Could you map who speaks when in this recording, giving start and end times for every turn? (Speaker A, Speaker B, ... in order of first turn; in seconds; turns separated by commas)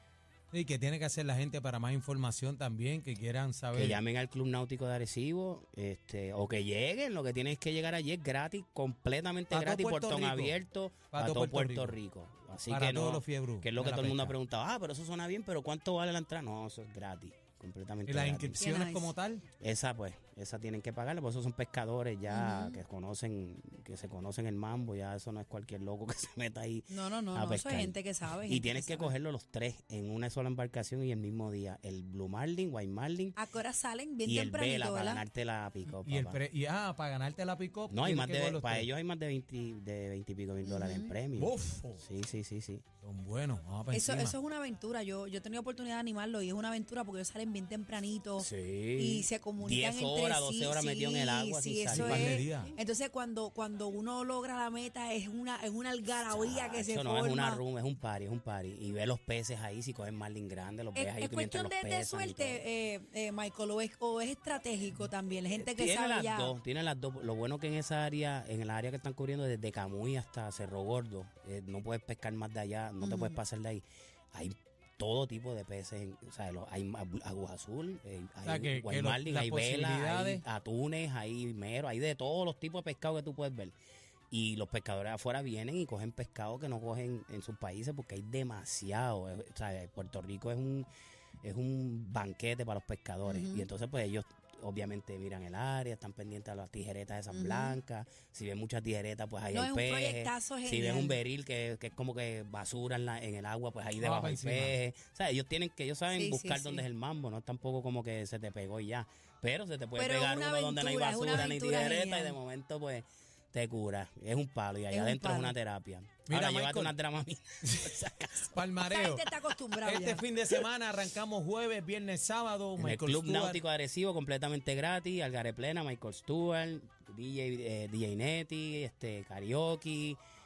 Speaker A: 0.5-4.0, Speaker B: 3.7-18.7, Speaker A: 9.5-10.6, Speaker A: 11.1-12.0, Speaker A: 12.7-14.4, Speaker A: 18.1-19.4, Speaker C: 18.6-19.1, Speaker B: 19.6-33.4, Speaker C: 22.3-22.8, Speaker C: 26.9-29.1, Speaker C: 33.4-35.2, Speaker B: 34.2-36.4, Speaker A: 36.0-38.9, Speaker B: 37.9-42.8, Speaker C: 40.6-41.1, Speaker A: 41.4-42.0, Speaker A: 43.0-44.4, Speaker C: 43.9-57.6, Speaker B: 48.4-52.4, Speaker A: 51.9-52.7, Speaker B: 56.2-62.6, Speaker C: 61.0-66.5, Speaker B: 65.5-83.7, Speaker C: 73.0-73.4, Speaker A: 78.5-80.4, Speaker B: 84.3-90.9, Speaker B: 91.4-118.5, Speaker C: 93.3-93.7, Speaker C: 97.3-97.8, Speaker C: 99.5-101.2, Speaker A: 104.0-104.8, Speaker C: 106.1-106.9, Speaker C: 110.0-112.4, Speaker C: 114.9-115.5, Speaker A: 116.3-117.0, Speaker A: 117.7-119.3, Speaker C: 118.8-120.2, Speaker A: 119.8-123.6, Speaker B: 122.8-130.2